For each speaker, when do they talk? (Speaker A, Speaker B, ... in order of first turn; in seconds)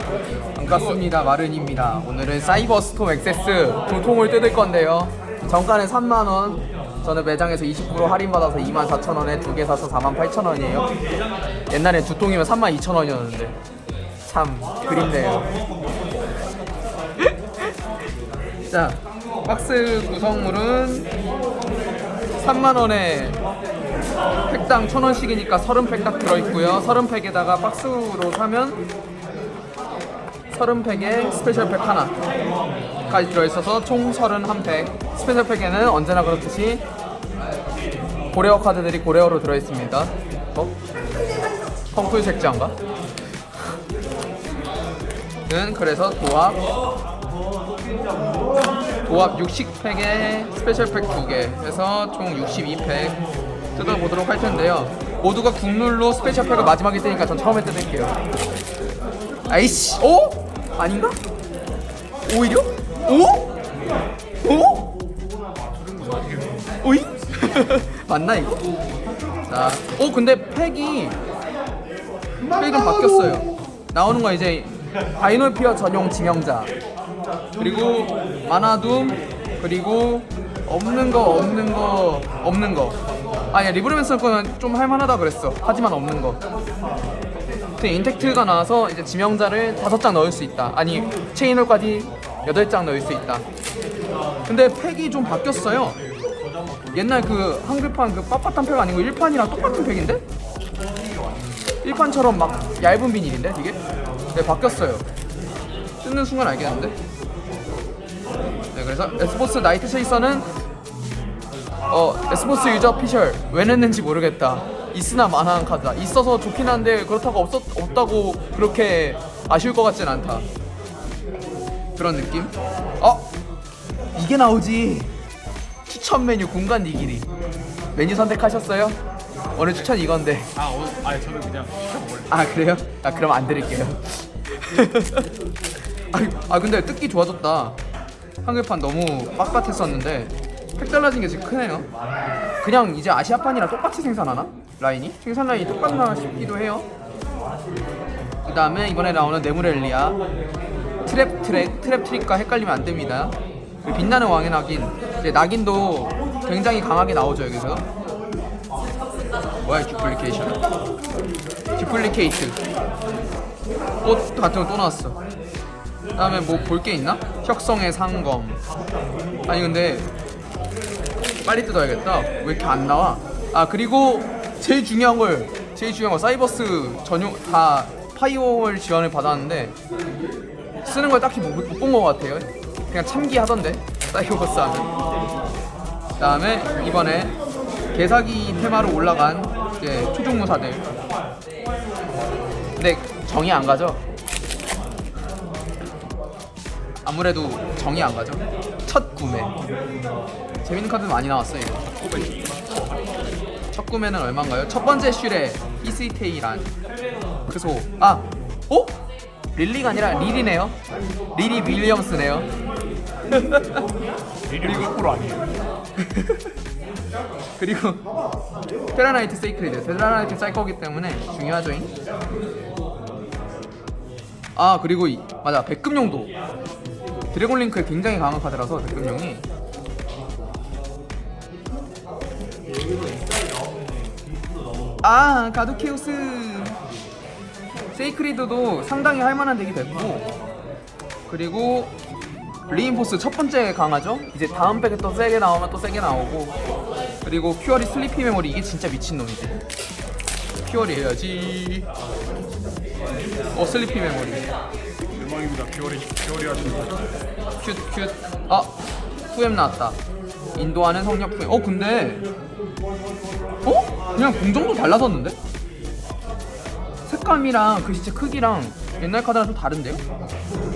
Speaker A: 0.6-10.9, 11.7-13.6, 14.3-15.5, 18.7-21.1, 22.4-23.4, 24.5-28.8, 30.5-32.1, 33.1-36.8, 38.3-40.7, 41.9-42.8, 45.5-46.6, 49.1-53.2, 53.8-58.1, 59.5-61.2, 62.3-63.5, 64.4-64.8, 66.8-68.6, 69.5-71.2, 72.6-76.7, 77.6-83.0, 83.5-86.4, 87.8-93.5, 94.5-96.0, 96.9-100.2, 101.8-103.8, 104.3-105.0, 106.0-107.0, 108.7-110.5, 111.9-120.5, 122.0-123.3, 124.2-125.1, 125.9-127.3, 128.0-129.0, 129.6-130.5, 132.3-135.3, 136.1-137.8, 138.4-141.9, 142.6-146.9, 148.5-150.2, 151.1-157.8, 159.7-160.6, 161.8-162.6, 164.0-165.2, 166.2-168.6, 169.5-170.1, 171.4-179.8, 180.8-184.9, 186.2-187.3, 187.9-190.9, 192.8-194.0, 197.1-199.5, 200.6-201.8, 203.7-206.7, 207.5-208.9, 209.6-210.8, 211.3-212.5, 213.3-213.8, 214.6-214.9, 216.0-216.4, 217.6-218.0, 218.9-221.9, 224.6-226.3, 227.3-229.4, 235.0-236.8, 237.9-240.3, 241.3-241.9, 242.7-246.6, 247.2-249.6, 250.7-251.9, 253.5-254.5, 257.6-258.8, 259.3-260.0, 260.6-262.2, 263.6-265.4, 267.1-270.0
Speaker B: 65.7-66.6, 130.6-132.6, 202.0-203.4, 214.5-215.5, 255.1-257.0